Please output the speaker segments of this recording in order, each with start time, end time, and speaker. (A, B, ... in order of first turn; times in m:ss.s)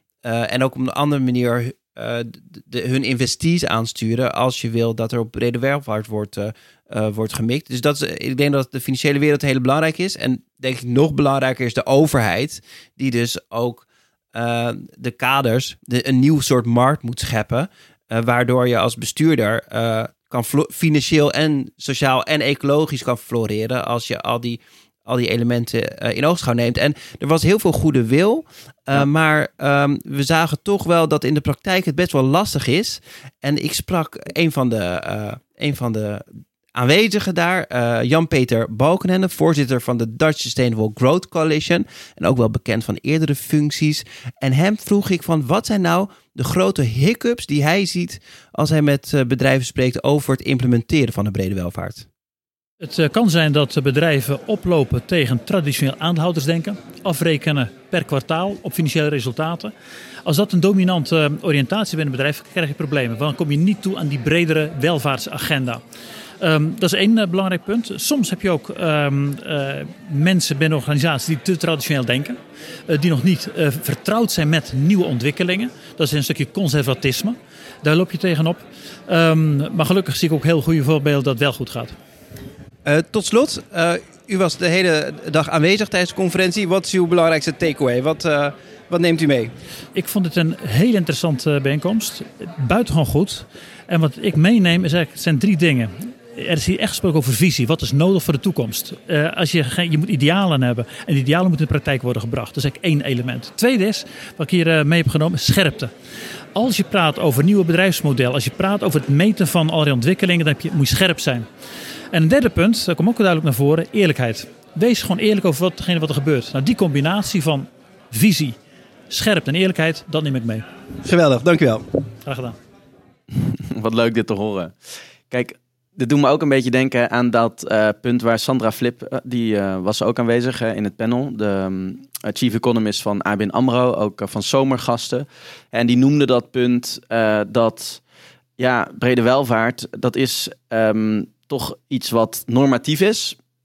0:00.2-0:52.1 A
0:52.8-0:59.7 B
1:00.2-1:05.8 B
1:06.4-1:12.4 B
1:12.9-1:21.9 B
1:22.8-1:29.5 A
1:29.9-1:45.9 B
1:46.5-1:51.4 B
1:52.1-1:58.6 B
1:59.1-2:00.6 B
2:01.0-2:01.8 A
2:02.2-2:02.5 B
2:03.3-2:04.7 C
2:05.3-2:18.0 C
2:18.6-2:23.4 C